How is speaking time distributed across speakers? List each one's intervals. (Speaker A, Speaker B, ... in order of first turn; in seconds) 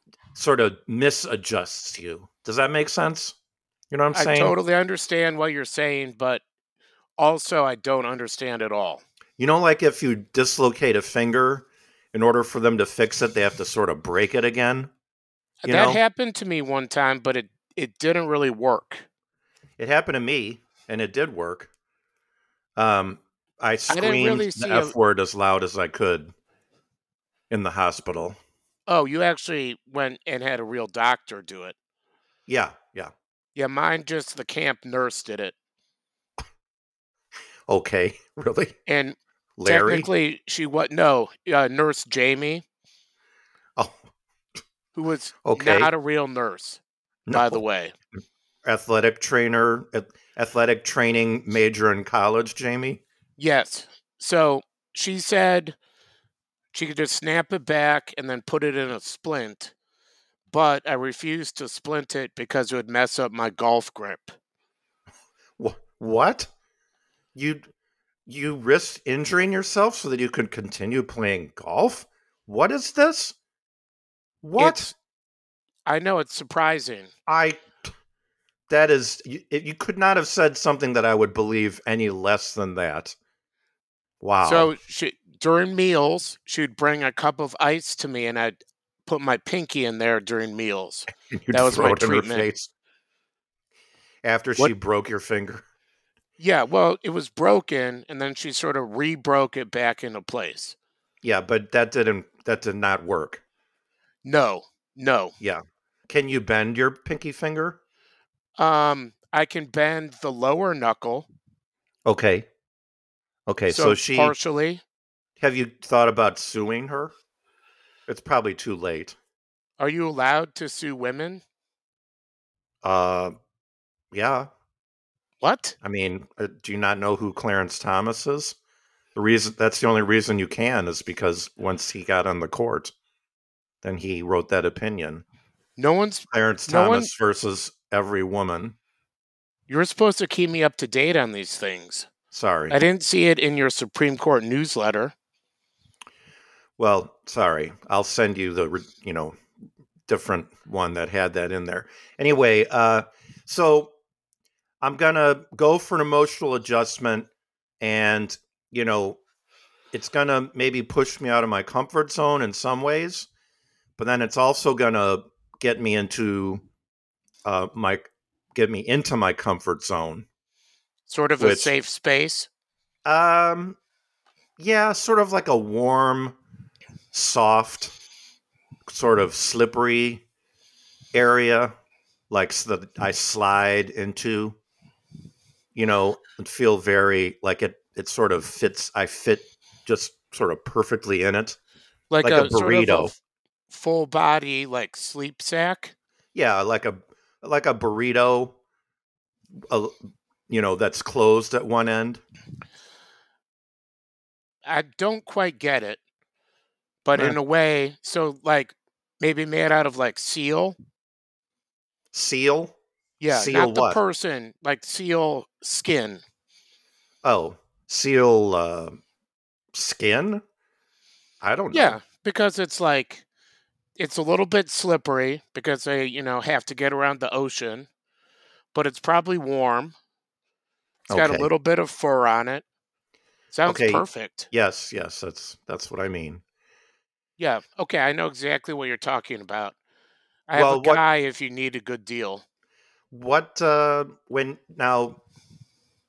Speaker A: 0.3-3.3, 3.9-4.5, 9.4-14.9, 15.6-16.0, 19.8-21.7, 22.8-26.3, 27.5-28.4, 32.5-33.1, 37.7-38.7, 39.6-40.1, 45.4-45.9, 47.3-47.6, 48.6-53.0, 65.6-66.5, 67.3-67.7, 68.3-73.3, 74.4-74.9, 77.3-77.6, 78.7-83.1, 84.2-84.7, 91.3-92.7, 94.2-95.6, 101.2-103.4, 105.4-107.8, 112.0-112.5, 113.5-114.3, 115.4-117.1, 118.1-119.2, 122.8-123.3, 124.1-124.5, 125.8-128.6, 129.1-132.9, 133.8-135.2, 136.3-138.8, 142.3-142.8, 146.8-149.4, 150.1-153.9, 154.8-157.3, 157.8-159.2, 159.9-163.3, 164.0-166.6, 167.4-170.3, 171.4-171.7, 173.0-173.8, 174.6-176.4, 177.1-177.9, 178.9-180.2, 181.1-181.7, 182.3-184.6, 185.7-191.6, 192.2-193.1, 196.3-198.6, 199.7-199.9, 200.5-202.2, 212.1-212.8, 213.3-214.0, 217.2-219.0, 219.7-220.4, 221.4-222.0, 231.1-231.5, 233.7-236.4, 240.5-241.0, 243.1-245.2
Speaker B: 4.1-6.4, 7.2-9.0, 15.6-19.0, 23.9-24.9, 28.9-31.7, 33.5-35.5, 38.9-42.6, 44.9-46.8, 47.3-47.9, 53.4-55.8, 56.7-59.7, 60.5-64.3, 74.6-74.9, 75.8-77.1, 84.4-92.5, 96.4-100.8, 104.2-105.3, 108.5-111.3, 113.7-114.8, 119.8-121.4, 125.4-125.8, 135.8-137.1, 139.7-142.1, 142.7-145.1, 171.1-172.5, 192.1-193.2, 193.7-195.9, 204.6-206.0, 207.0-210.8, 213.2-216.2, 221.7-223.2, 224.0-227.9, 228.7-229.9, 231.1-232.6, 233.5-234.5, 237.4-239.7, 240.5-242.4